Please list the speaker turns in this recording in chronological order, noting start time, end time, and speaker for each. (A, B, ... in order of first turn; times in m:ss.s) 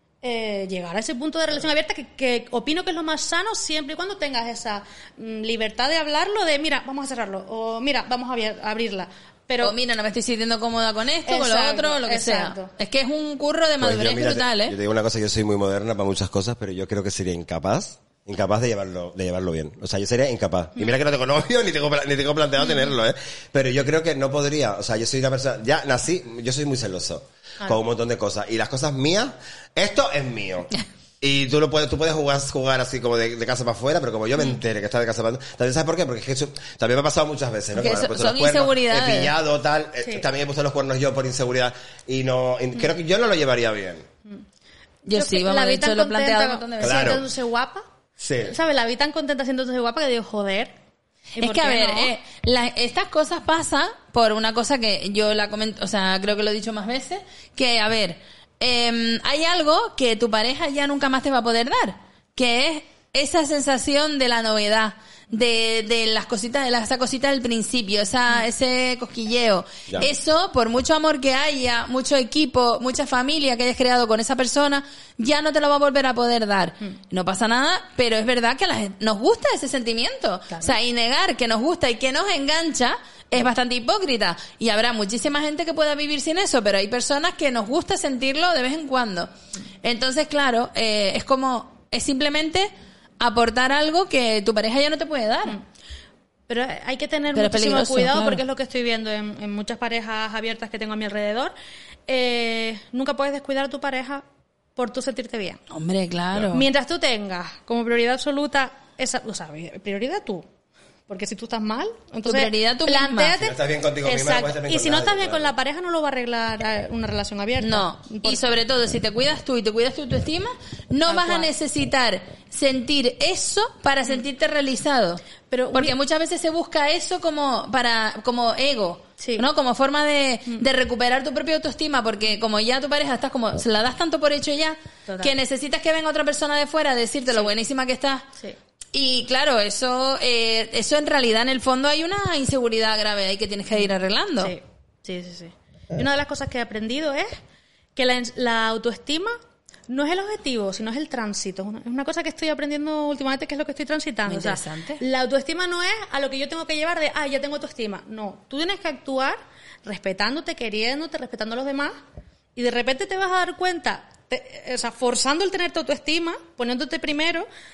0:00.2-0:09.8 A
0:09.6-0:14.8 B
0:11.2-0:12.7 A
0:13.8-0:44.1 C
0:37.7-0:39.3 B
0:45.0-0:47.2 B
0:45.1-0:47.8 A
0:46.8-0:47.2 C
0:48.2-0:48.5 C
0:48.4-0:50.7 A
0:51.4-1:29.3 B
0:51.4-0:52.1 A
1:29.8-1:35.6 B
1:36.5-1:41.5 A
1:37.3-1:38.4 B
1:42.1-1:44.2 A
1:44.8-1:45.6 A
1:45.7-1:46.6 B
1:46.5-1:50.4 A
1:51.1-1:58.4 A
1:52.2-1:53.3 B
1:53.4-1:55.5 C
1:57.6-2:05.2 B
2:01.1-2:01.5 A
2:05.5-2:05.9 A
2:05.7-2:18.2 B
2:09.2-2:09.4 A
2:15.0-2:15.3 A
2:18.9-2:24.5 B
2:24.4-2:27.3 A
2:28.0-2:29.3 A
2:29.9-2:42.0 A
2:34.3-2:35.0 B
2:42.6-2:47.4 A